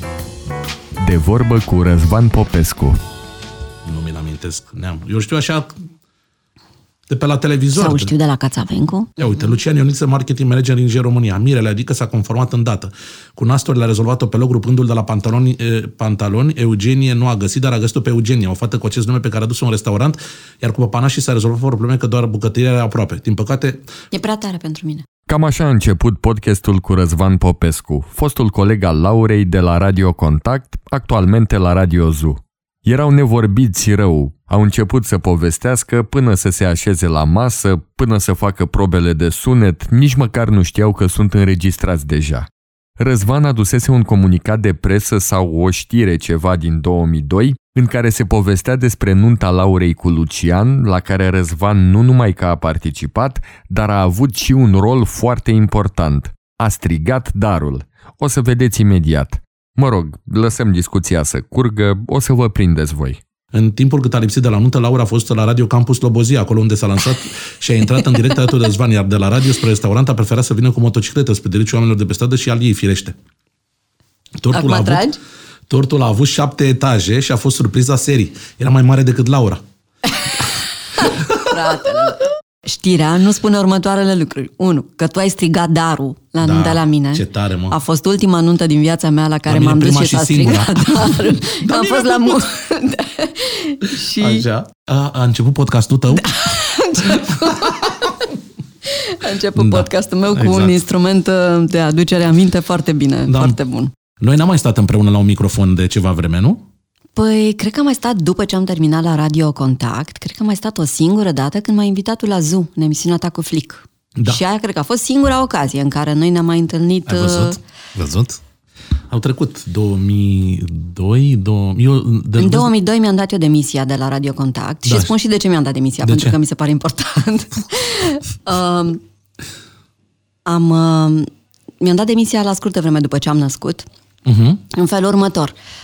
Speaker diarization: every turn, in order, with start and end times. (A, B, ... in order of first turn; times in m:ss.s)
0:01.0-0:03.0 A
0:03.8-0:05.8 B
0:07.1-0:08.1 B
0:07.7-0:09.2 C
0:09.2-0:23.8 B
0:24.1-0:25.0 C
0:25.3-0:42.5 A
0:43.0-1:03.2 A
1:03.5-1:13.1 B
1:14.4-1:15.0 B
1:14.5-1:15.2 C
1:15.7-1:19.6 B
1:21.0-1:34.4 C
1:21.0-1:22.0 B
1:26.4-1:27.8 B
1:29.5-1:32.5 B
1:34.2-1:36.4 B
1:36.1-1:38.2 C
1:37.0-1:38.0 B
1:38.8-1:43.9 C
1:39.5-1:40.8 B
1:43.3-1:43.6 B
1:44.2-1:46.6 B
1:47.2-1:57.6 C
1:54.2-1:54.4 B
1:57.0-1:58.4 B
1:59.1-2:02.7 B
2:02.4-2:09.0 C
2:04.8-2:05.1 B
2:06.0-2:06.4 B
2:10.4-2:11.3 C
2:11.8-2:13.9 C
2:14.2-2:14.6 B
2:14.7-2:15.5 C